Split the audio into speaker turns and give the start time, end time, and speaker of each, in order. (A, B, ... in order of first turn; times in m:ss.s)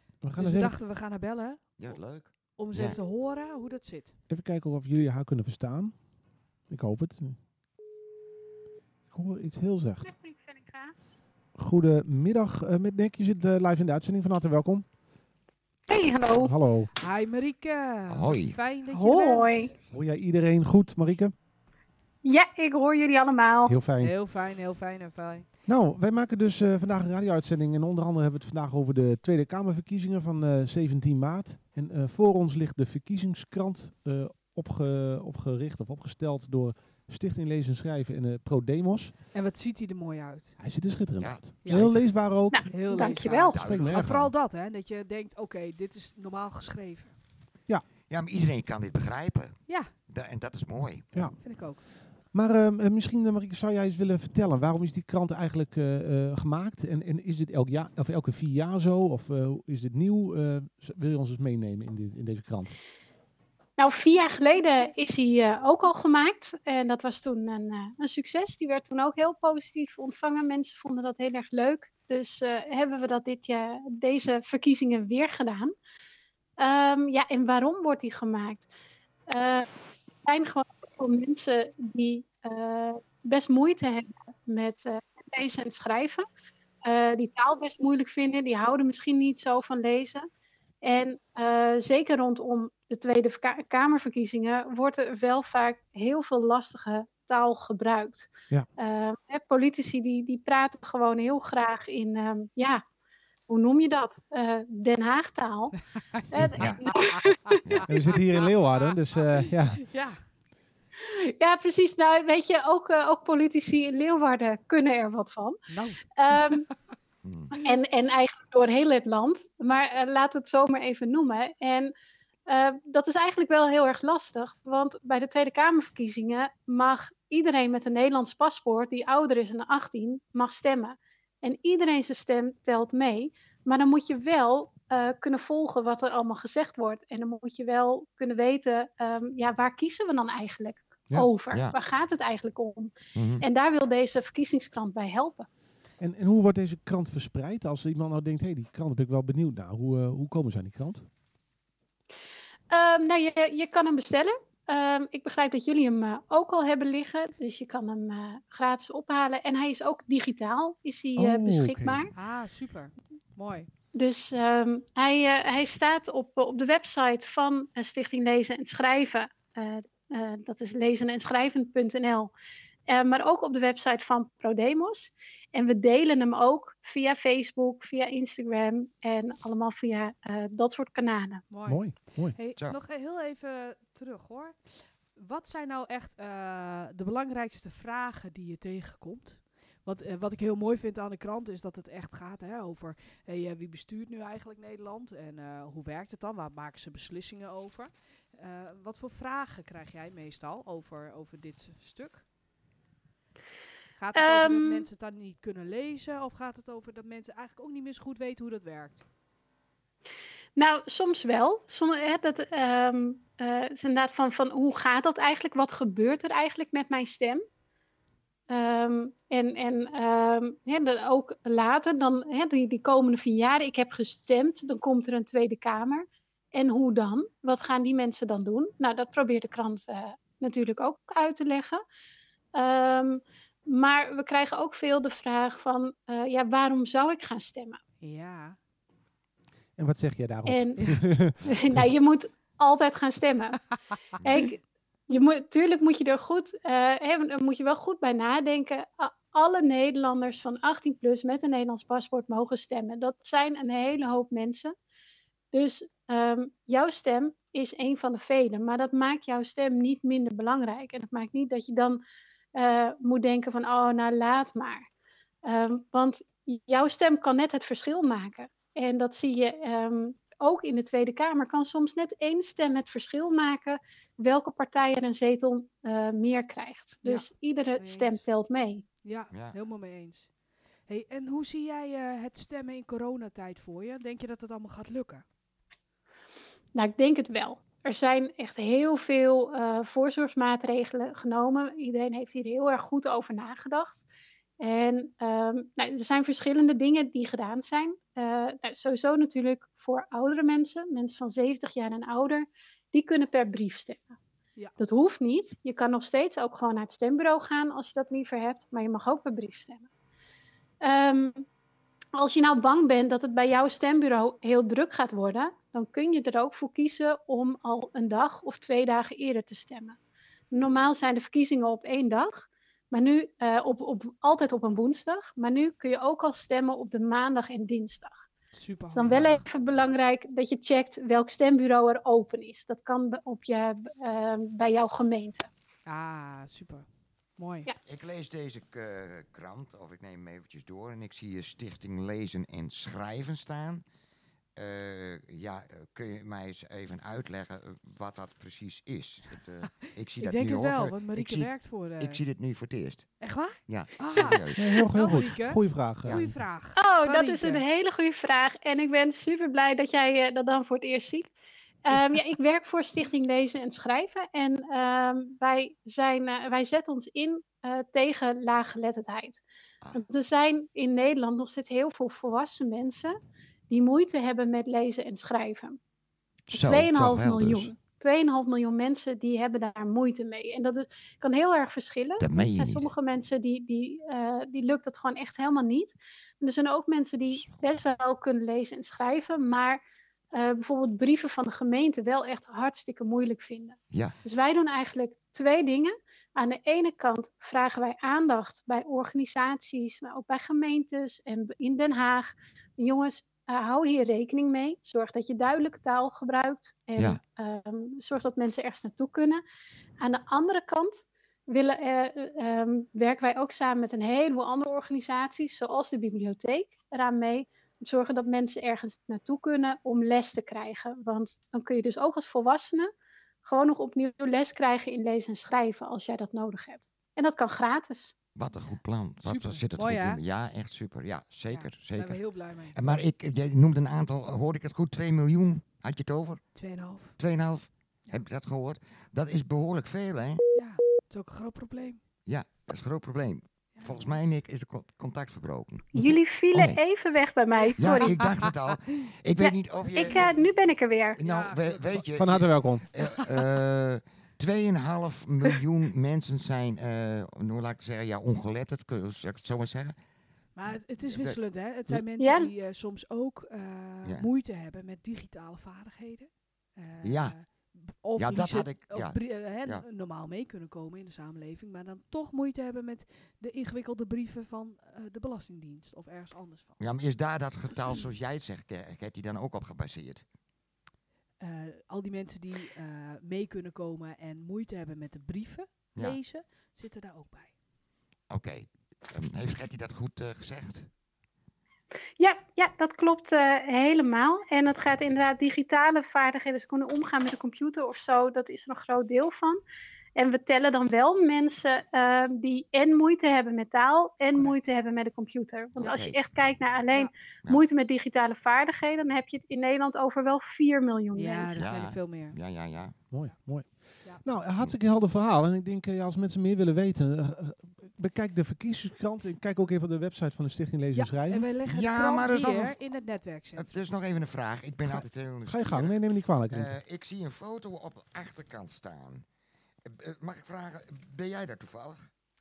0:00.2-0:00.8 A
0:00.4-0:02.0 B
0:01.8-0:03.0 C
0:02.6-0:04.2 B
0:04.3-0:06.0 A
0:06.7-0:07.4 A
0:09.1-0:10.1 A
0:10.0-0:10.9 D
0:11.6-0:14.8 A
0:15.9-0:16.5 D
0:16.3-0:16.9 A
0:17.0-0:19.7 B
0:18.1-0:18.6 C
0:18.9-0:19.7 D
0:19.9-0:21.3 A
0:22.2-0:23.8 D
0:23.6-0:24.1 A
0:24.0-0:25.5 B
0:25.6-0:39.1 A
0:39.3-0:40.6 B
0:40.6-0:44.3 A
0:41.2-0:42.0 C
0:41.6-0:41.9 B
0:42.5-0:43.6 D
0:42.7-0:47.2 B
0:43.3-0:44.0 C
0:48.1-0:51.3 C
0:51.1-0:51.4 A
0:51.4-0:51.8 B
0:52.2-1:02.8 A
1:03.8-1:15.7 D
1:16.6-1:18.7 D
1:19.3-1:19.7 D
1:20.2-1:26.2 D
1:26.8-1:30.3 D
1:30.8-1:42.8 D
1:43.5-1:45.8 D
1:46.3-1:47.6 D
1:46.6-1:46.8 C
1:47.2-1:47.6 B
1:47.6-1:48.0 C
1:47.8-1:49.9 A
1:49.4-1:50.2 B
1:51.0-1:56.7 D
1:55.7-1:56.6 B
1:57.2-1:57.5 C
1:57.5-2:01.9 D
2:02.5-2:25.5 D
2:21.5-2:21.8 C
2:23.1-2:23.4 C
2:26.0-2:31.1 A
2:32.7-2:42.1 D
2:41.2-2:42.1 A
2:42.1-2:43.7 B
2:43.9-2:52.3 D
2:52.9-3:01.4 D
3:01.5-3:22.2 B
3:01.6-3:02.4 A
3:24.0-3:29.0 B
3:24.1-3:24.8 D
3:30.6-3:37.4 D
3:38.5-3:51.8 D
3:52.5-3:57.8 D
3:58.0-3:58.6 B
3:59.8-4:01.9 A
4:00.5-4:14.7 D
4:15.5-4:22.0 D
4:22.5-4:24.8 D
4:25.4-4:38.8 D
4:37.0-4:38.2 B
4:39.0-4:40.3 B
4:39.3-4:39.6 C
4:40.9-4:45.2 B
4:46.7-4:54.0 D
4:54.6-5:04.2 D
5:04.8-5:09.9 D
5:10.8-5:11.4 D
5:12.1-5:20.0 D
5:20.5-5:28.2 D
5:28.5-5:29.3 B
5:28.9-5:35.5 D
5:29.0-5:29.4 C
5:35.8-5:37.7 B
5:37.8-5:43.8 C
5:44.6-5:55.2 C
5:49.8-5:52.2 B
5:53.2-5:57.6 B
5:54.5-5:56.3 A
5:56.0-5:56.3 C
5:56.8-6:01.3 D
6:01.8-6:09.4 D
6:09.9-6:13.2 D
6:13.7-6:15.8 D
6:16.5-6:17.7 C
6:16.5-6:29.8 D
6:22.2-6:22.9 C
6:27.3-6:27.6 C
6:30.3-6:49.4 D
6:33.9-6:34.2 C
6:50.0-7:02.9 D
7:03.4-7:08.1 D
7:08.3-7:16.6 C
7:08.6-7:10.2 B
7:11.5-7:13.0 B
7:16.5-7:17.2 B
7:17.2-7:20.4 C
7:20.5-7:22.0 B
7:22.2-7:26.8 C
7:23.7-7:24.3 B
7:25.9-7:28.2 D
7:27.6-7:28.5 B
7:27.8-7:30.3 C
7:29.4-7:31.2 D
7:30.0-7:30.3 B
7:31.2-7:40.0 C
7:31.2-7:32.0 B
7:32.1-7:32.8 A
7:33.0-7:33.3 B
7:40.6-7:56.8 B
7:41.0-7:41.4 C
7:42.2-7:42.5 D
7:47.0-7:47.4 C
7:48.2-7:49.8 C
7:56.8-8:00.2 C
8:01.4-8:07.5 B
8:08.3-8:10.9 C
8:12.2-8:19.6 D
8:20.2-8:31.6 D
8:25.8-8:26.2 C
8:31.1-8:32.4 B
8:31.6-8:32.9 C
8:33.1-8:41.5 A
8:40.9-8:43.7 B
8:41.6-8:42.8 C
8:43.6-8:46.0 C
8:44.8-8:46.8 A
8:46.5-8:49.2 C
8:49.8-8:52.0 C